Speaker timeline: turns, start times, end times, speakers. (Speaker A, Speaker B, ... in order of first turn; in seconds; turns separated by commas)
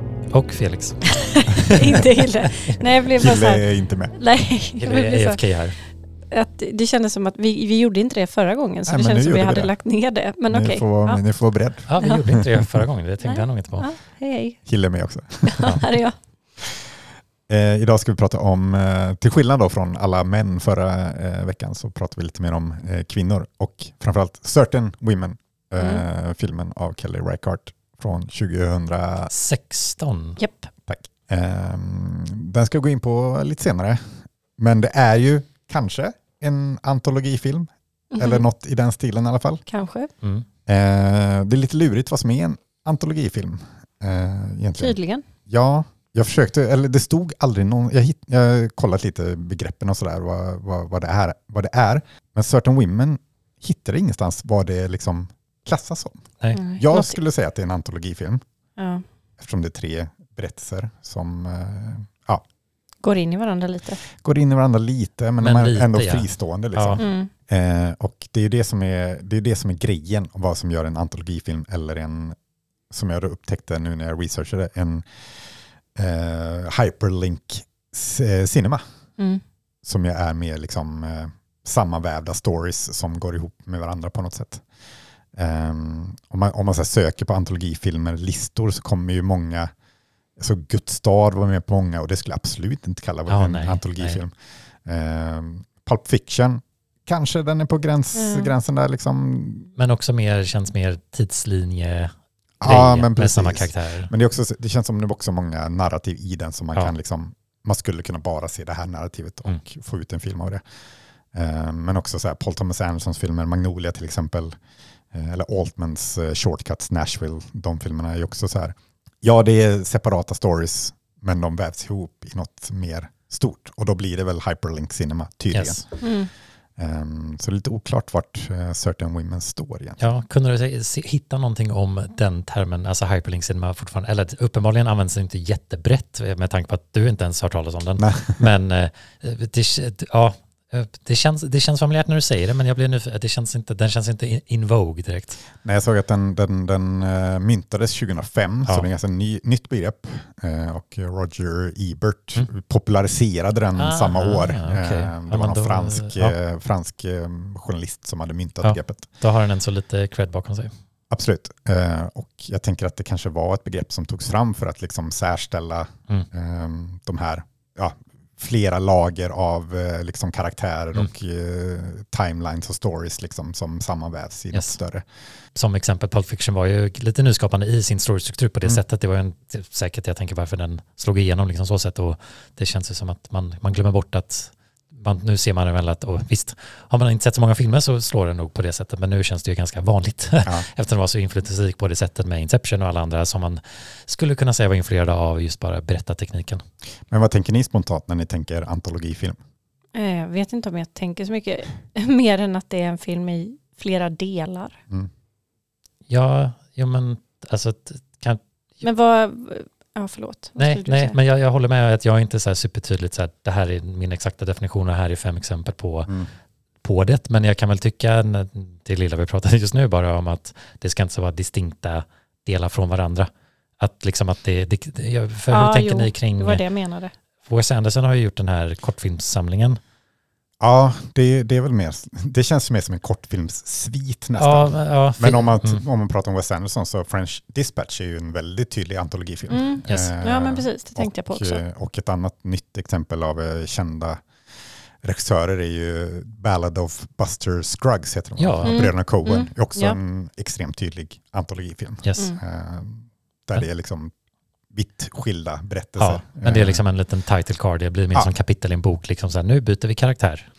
Speaker A: 0.3-2.8, Speaker B: 1.1-5.4, Speaker C: 3.0-4.2, Speaker A: 4.8-5.8, Speaker B: 6.3-11.2, Speaker C: 8.9-9.7, Speaker C: 10.5-12.8, Speaker A: 11.9-13.9, Speaker B: 13.2-14.6, Speaker C: 14.7-15.8, Speaker B: 15.4-16.2, Speaker C: 16.6-16.9, Speaker C: 17.5-29.3, Speaker B: 25.8-26.0, Speaker A: 29.3-30.4, Speaker B: 30.4-30.7, Speaker C: 30.9-39.6, Speaker B: 38.1-38.5, Speaker B: 39.7-40.1, Speaker C: 40.7-45.0, Speaker B: 44.8-45.3, Speaker C: 45.5-56.2, Speaker B: 56.5-57.2, Speaker C: 56.8-58.4, Speaker B: 58.8-59.0, Speaker C: 59.4-62.4, Speaker B: 63.0-64.0, Speaker C: 64.0-72.4, Speaker A: 65.4-67.0, Speaker B: 67.0-67.3, Speaker C: 72.9-75.1, Speaker C: 76.0-78.8, Speaker C: 79.8-84.6, Speaker C: 85.3-89.7, Speaker C: 90.4-94.3, Speaker A: 93.3-94.2, Speaker C: 94.8-99.7, Speaker B: 98.2-98.5, Speaker A: 99.8-104.1, Speaker C: 102.6-110.6, Speaker C: 111.3-114.6, Speaker C: 115.1-126.1, Speaker A: 125.5-125.8, Speaker B: 126.0-126.3, Speaker C: 126.8-130.1, Speaker A: 130.0-145.4, Speaker C: 138.0-138.4, Speaker C: 145.6-159.1, Speaker A: 153.8-156.3, Speaker A: 158.6-160.7, Speaker C: 161.1-175.1, Speaker A: 174.5-174.8, Speaker A: 175.6-196.6, Speaker C: 197.1-199.4, Speaker B: 199.9-204.8, Speaker A: 206.1-208.4, Speaker B: 208.8-211.2, Speaker A: 210.6-216.2, Speaker A: 216.8-226.6, Speaker B: 225.5-227.1, Speaker A: 227.4-229.8, Speaker C: 230.6-244.3, Speaker A: 234.4-235.8, Speaker B: 239.5-241.6, Speaker A: 239.9-240.1, Speaker C: 245.0-254.1, Speaker A: 248.4-248.8, Speaker B: 248.7-250.0, Speaker A: 252.0-252.3, Speaker C: 254.7-256.8, Speaker A: 256.0-260.5